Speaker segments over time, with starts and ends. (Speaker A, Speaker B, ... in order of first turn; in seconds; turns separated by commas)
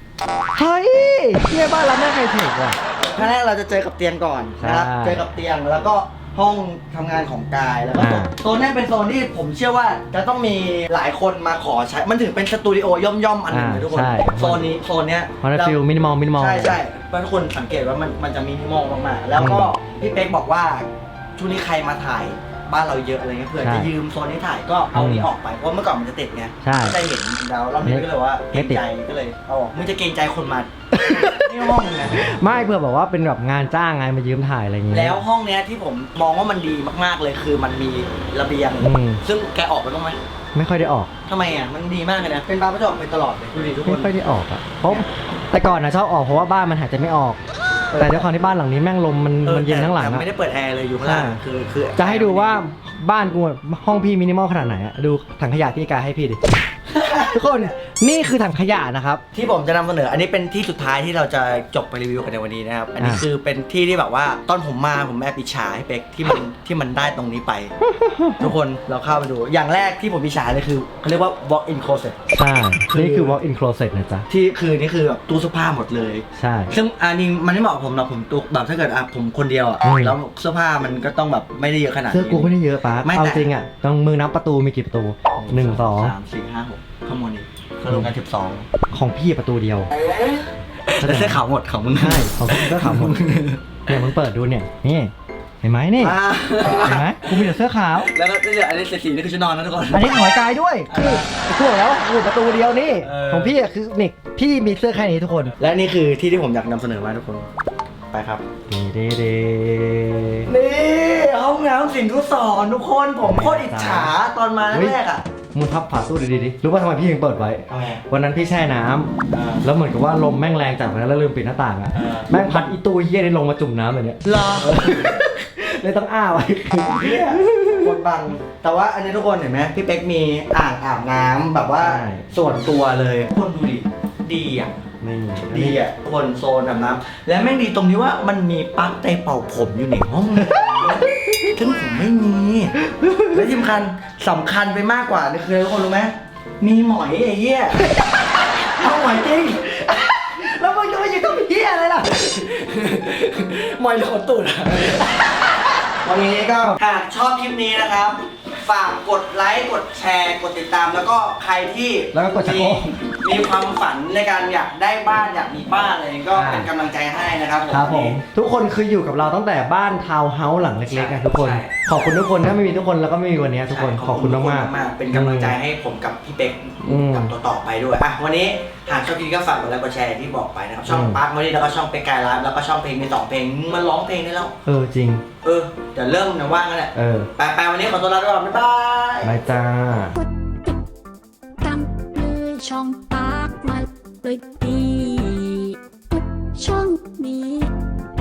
Speaker A: 0.5-2.8, Speaker B: 3.0-15.8, Speaker A: 4.6-5.2, Speaker A: 8.0-8.3, Speaker A: 13.5-14.6, Speaker A: 15.4-16.8, Speaker B: 16.3-32.2, Speaker A: 19.4-19.7, Speaker A: 23.6-23.9, Speaker A: 24.9-25.3, Speaker A: 26.6-27.0, Speaker A: 27.8-28.8, Speaker A: 30.9-31.6, Speaker A: 32.2-35.2, Speaker B: 34.9-40.2, Speaker A: 38.8-39.2, Speaker A: 40.5-41.1, Speaker B: 41.3-44.1, Speaker A: 43.8-47.4, Speaker B: 47.9-48.3, Speaker A: 48.0-50.2, Speaker B: 49.4-52.6, Speaker A: 51.0-51.4, Speaker A: 52.0-56.4, Speaker B: 56.9-57.7, Speaker A: 57.3-59.2, Speaker B: 59.3-67.7, Speaker A: 67.8-68.5, Speaker B: 68.4-72.3, Speaker A: 72.3-74.2, Speaker B: 72.8-73.3, Speaker B: 74.3-82.5, Speaker A: 76.3-76.7, Speaker A: 79.8-80.2, Speaker A: 82.1-86.1, Speaker B: 83.0-83.5, Speaker B: 85.3-88.7, Speaker A: 88.9-89.9, Speaker B: 90.0-93.8, Speaker A: 91.0-91.4, Speaker A: 92.0-93.2, Speaker A: 93.9-96.2, Speaker B: 96.0-100.4, Speaker A: 96.8-98.1, Speaker A: 99.9-105.5, Speaker B: 100.9-101.4, Speaker B: 103.0-103.5, Speaker B: 105.6-107.5, Speaker B: 108.1-108.4, Speaker A: 108.7-110.5, Speaker B: 110.5-115.2, Speaker A: 113.2-114.1, Speaker A: 114.7-115.0, Speaker A: 115.5-119.1, Speaker B: 117.7-118.0, Speaker B: 119.3-119.7, Speaker A: 119.6-128.0, Speaker B: 121.9-122.4, Speaker B: 124.2-125.2, Speaker B: 126.9-134.8, Speaker A: 131.8-132.2, Speaker A: 135.0-135.8, Speaker B: 135.4-142.8, Speaker A: 140.4-141.4, Speaker A: 142.8-143.4, Speaker B: 143.3-147.8, Speaker A: 147.8-152.1, Speaker B: 152.0-168.2, Speaker A: 162.1-162.9, Speaker A: 166.3-166.7, Speaker A: 167.7-175.5, Speaker B: 170.8-172.2, Speaker B: 173.7-184.5, Speaker A: 176.8-177.3, Speaker A: 180.9-181.2, Speaker A: 184.6-185.2, Speaker B: 185.4-189.3, Speaker A: 186.9-187.3, Speaker A: 189.2-190.2, Speaker C: 190.2-190.8, Speaker C: 191.6-197.7